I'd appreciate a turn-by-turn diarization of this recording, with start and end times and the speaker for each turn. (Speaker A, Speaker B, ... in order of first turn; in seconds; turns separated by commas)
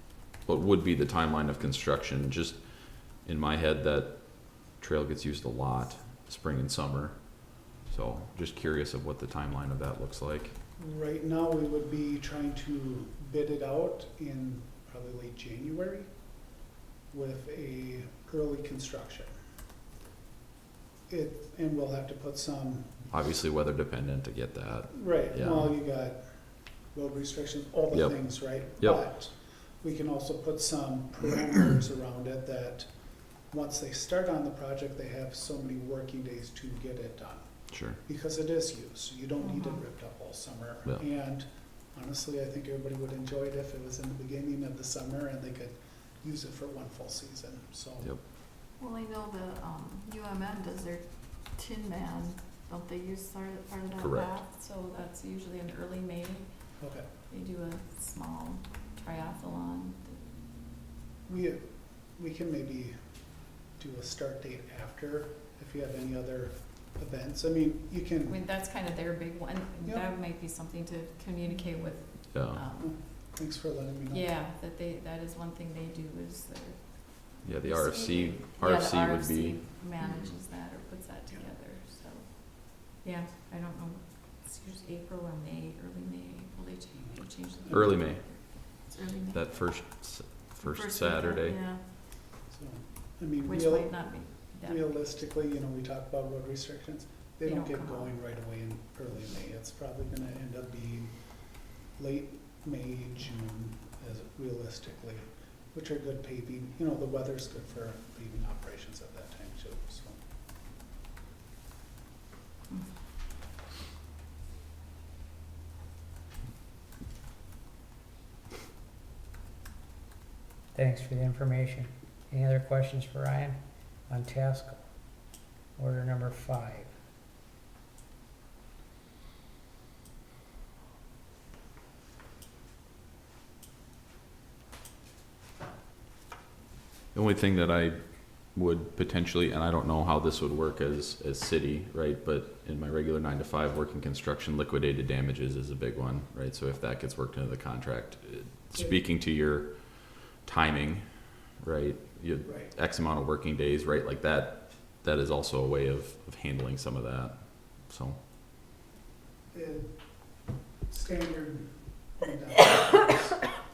Speaker A: 0.4-10.6, Speaker B: 10.8-16.1, Speaker B: 17.1-19.3, Speaker B: 21.1-23.1, Speaker A: 23.1-25.7, Speaker B: 24.9-26.2, Speaker B: 26.9-32.9, Speaker A: 27.9-28.2, Speaker B: 33.5-37.5, Speaker A: 37.7-38.0, Speaker B: 38.0-48.1, Speaker C: 39.4-39.8, Speaker C: 48.8-56.5, Speaker A: 54.0-54.4, Speaker B: 56.8-57.0, Speaker C: 57.3-60.2, Speaker B: 61.3-63.0, Speaker B: 63.7-68.4, Speaker C: 68.3-72.9, Speaker A: 72.3-72.6, Speaker B: 72.8-74.3, Speaker C: 74.1-89.4, Speaker A: 77.4-79.6, Speaker A: 87.7-88.6, Speaker A: 89.3-91.6, Speaker C: 90.6-91.8, Speaker B: 92.5-93.9, Speaker C: 93.4-94.9, Speaker B: 94.6-101.1, Speaker C: 97.5-98.1, Speaker B: 102.0-110.2, Speaker D: 120.7-123.6, Speaker D: 124.1-124.8, Speaker D: 125.8-126.9, Speaker A: 137.1-158.2, Speaker B: 152.4-152.7, Speaker B: 159.5-159.9, Speaker B: 160.9-163.5